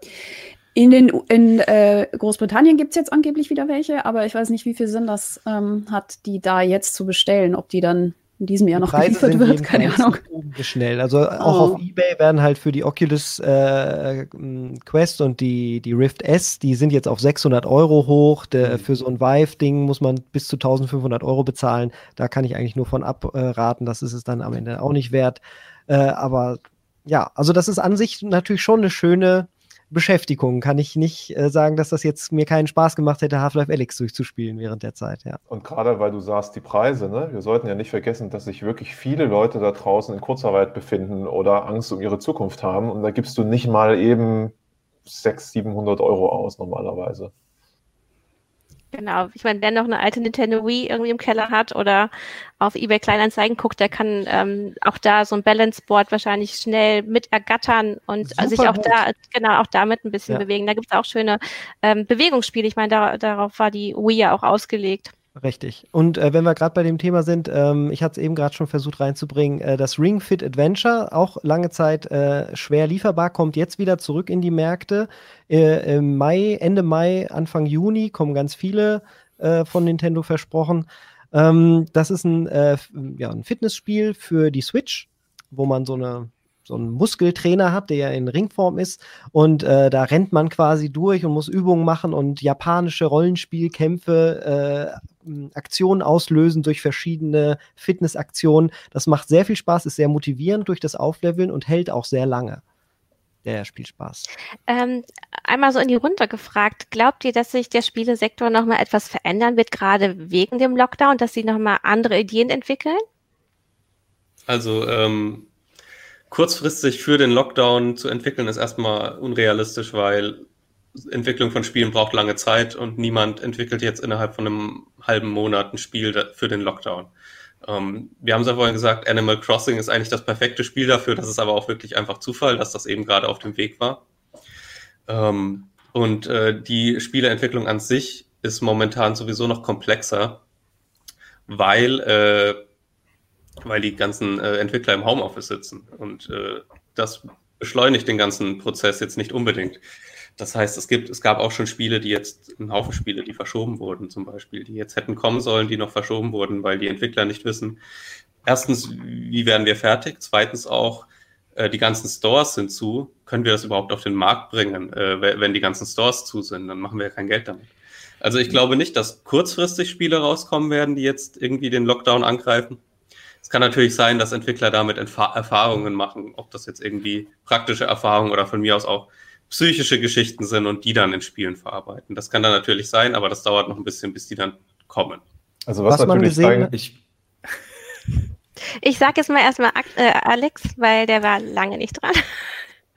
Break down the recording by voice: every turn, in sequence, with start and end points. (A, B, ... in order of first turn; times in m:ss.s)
0:00.7-0:10.2 A
0:08.8-0:35.4 B
0:11.4-0:11.8 A
0:35.5-0:44.5 C
0:45.0-0:47.3 C
0:48.9-1:05.1 D
0:58.2-0:59.0 B
1:05.4-1:42.6 B
1:43.4-1:44.3 B
1:44.7-1:53.0 D
1:54.5-1:55.5 E
1:56.3-2:00.4 E
2:01.1-2:07.1 E
2:07.6-2:14.0 E
2:15.1-2:20.4 E
2:21.5-2:22.6 E
2:23.6-2:29.8 E
2:30.4-2:37.8 E
2:38.4-2:52.8 E
2:53.4-3:05.2 E
3:05.7-3:06.8 C
3:05.9-3:06.7 B
3:08.8-3:12.2 D